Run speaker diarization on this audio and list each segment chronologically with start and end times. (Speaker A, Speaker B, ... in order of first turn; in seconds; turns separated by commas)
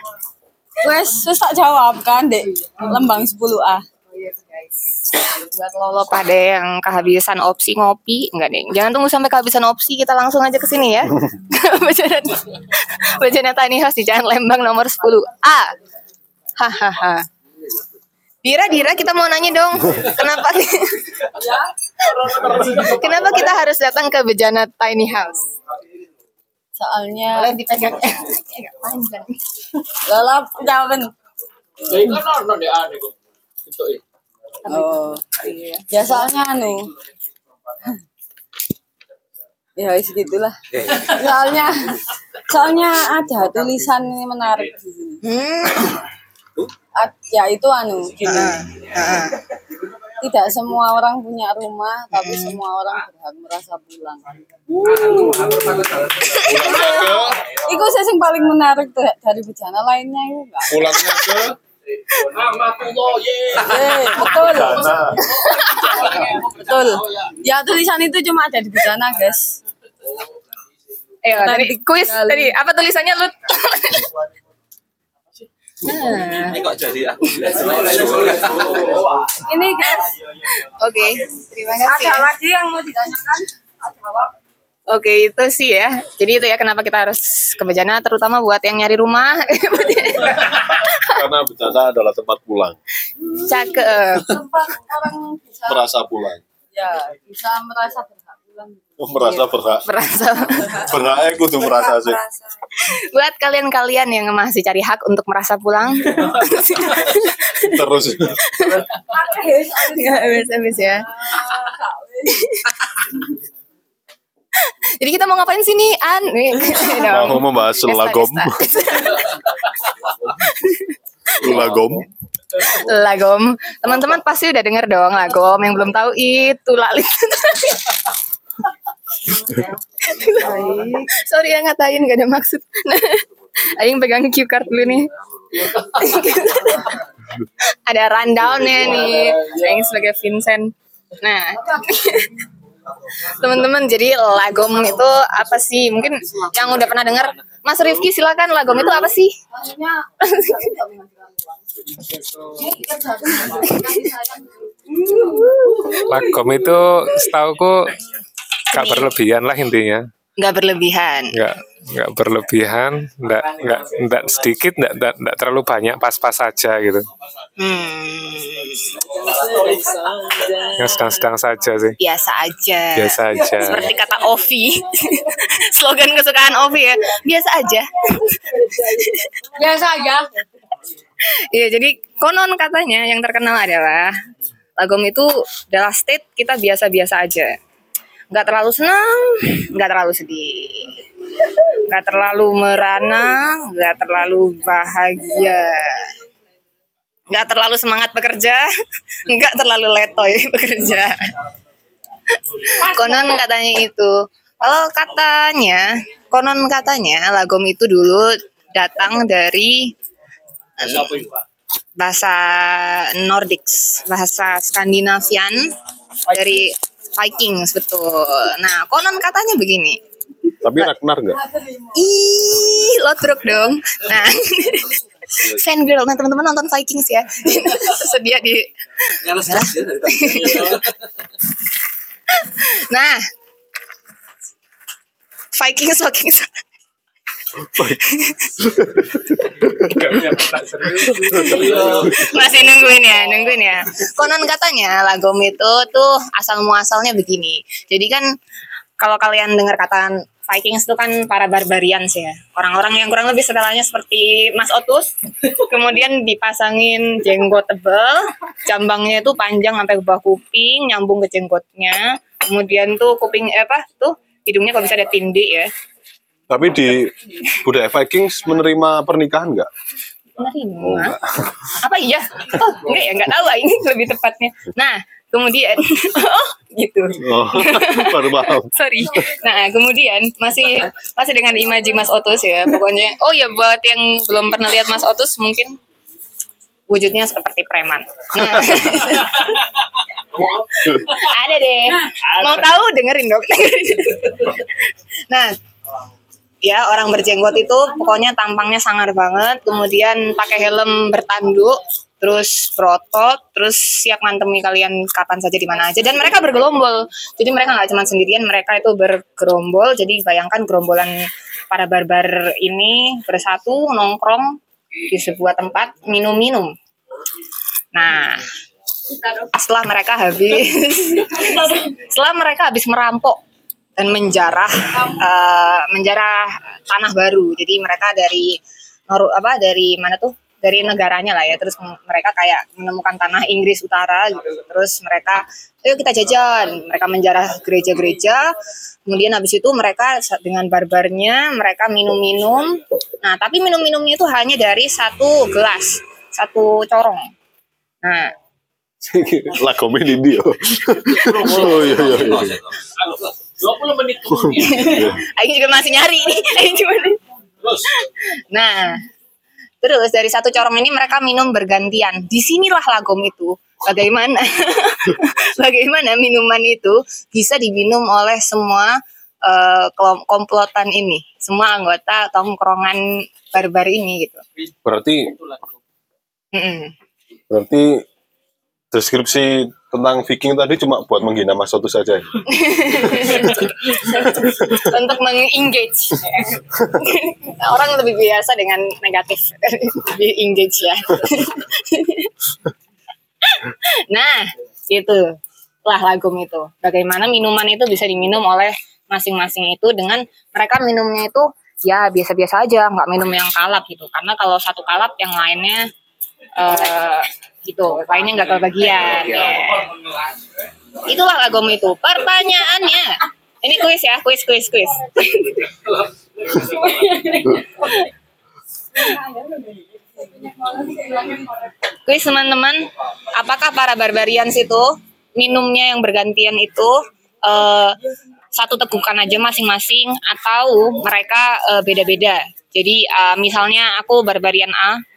Speaker A: 0.8-3.8, Speaker B: 4.1-15.7, Speaker B: 16.6-17.2, Speaker B: 18.4-21.3, Speaker C: 22.1-23.2, Speaker B: 22.6-25.4, Speaker A: 26.8-27.6, Speaker B: 27.3-29.4, Speaker A: 30.1-31.1, Speaker C: 31.9-33.1, Speaker C: 33.7-34.0, Speaker B: 34.7-35.8, Speaker A: 34.7-35.4, Speaker A: 35.9-36.9, Speaker A: 39.8-45.2, Speaker B: 45.2-46.0, Speaker A: 47.0-48.6, Speaker B: 48.3-49.4, Speaker A: 50.2-61.3, Speaker B: 52.2-52.6, Speaker C: 54.9-55.3, Speaker D: 56.4-57.4, Speaker D: 60.7-61.6, Speaker C: 62.2-64.9, Speaker A: 63.6-65.0, Speaker D: 64.3-65.2, Speaker A: 65.7-69.6, Speaker C: 66.2-67.2, Speaker B: 71.2-74.1, Speaker A: 71.3-72.5, Speaker B: 75.8-76.7, Speaker A: 79.4-80.1, Speaker B: 80.6-82.3, Speaker A: 81.8-84.3, Speaker B: 84.9-91.1, Speaker D: 91.0-92.8, Speaker B: 93.4-94.4, Speaker A: 94.3-95.8, Speaker D: 95.7-96.4, Speaker A: 96.7-98.8, Speaker D: 99.0-99.8, Speaker B: 99.2-100.8, Speaker D: 100.8-102.2, Speaker A: 101.8-102.3, Speaker B: 102.8-107.8, Speaker D: 107.7-108.4, Speaker B: 108.5-108.8, Speaker A: 109.2-110.4, Speaker B: 109.9-111.1, Speaker B: 114.6-119.3, Speaker D: 117.0-118.5, Speaker B: 120.5-120.9, Speaker D: 121.4-122.1, Speaker B: 122.6-127.9, Speaker B: 130.0-135.1, Speaker A: 130.4-131.0, Speaker B: 135.8-137.0, Speaker B: 137.9-142.4, Speaker B: 143.2-149.3, Speaker A: 149.6-151.3, Speaker B: 150.2-150.7, Speaker A: 152.4-154.4, Speaker B: 153.6-154.1, Speaker A: 155.0-155.8, Speaker E: 156.1-158.0, Speaker E: 158.7-160.0, Speaker B: 158.8-159.1, Speaker B: 160.4-161.3, Speaker E: 161.3-167.1, Speaker B: 167.6-169.0, Speaker E: 170.8-172.0, Speaker B: 172.0-178.3, Speaker E: 173.0-173.9, Speaker A: 178.4-180.4, Speaker B: 179.0-179.3, Speaker B: 181.5-184.1, Speaker B: 184.8-187.6, Speaker B: 188.3-191.0, Speaker B: 191.9-196.1, Speaker B: 197.3-198.7, Speaker B: 199.3-201.2, Speaker B: 202.6-209.9, Speaker C: 210.9-211.3, Speaker B: 212.0-215.7, Speaker B: 216.3-220.0, Speaker D: 220.6-221.4, Speaker B: 221.9-230.8, Speaker B: 232.3-233.2, Speaker B: 235.6-236.6, Speaker B: 237.9-238.5, Speaker E: 239.9-241.7, Speaker B: 241.3-248.3, Speaker B: 249.0-265.7, Speaker D: 266.5-269.7, Speaker B: 270.4-271.2, Speaker D: 270.8-271.4, Speaker B: 271.8-285.8, Speaker D: 277.2-278.7, Speaker B: 286.9-289.5, Speaker B: 290.9-294.6, Speaker B: 296.6-311.1, Speaker B: 311.7-316.7, Speaker B: 317.9-318.5, Speaker B: 319.3-323.4, Speaker B: 324.0-338.6, Speaker B: 339.1-347.3, Speaker B: 348.0-348.3, Speaker D: 349.1-352.7, Speaker C: 351.1-352.3, Speaker C: 353.0-355.1, Speaker B: 354.7-357.2, Speaker D: 354.8-355.2, Speaker C: 357.6-357.9, Speaker B: 358.5-359.0, Speaker B: 359.8-374.4, Speaker D: 374.9-375.4, Speaker B: 376.5-376.9, Speaker D: 377.5-378.0, Speaker D: 378.9-382.4, Speaker B: 382.5-392.3, Speaker B: 393.5-405.9, Speaker B: 406.6-409.9, Speaker B: 411.0-415.7, Speaker B: 416.9-418.1, Speaker B: 422.1-428.0, Speaker B: 428.6-435.0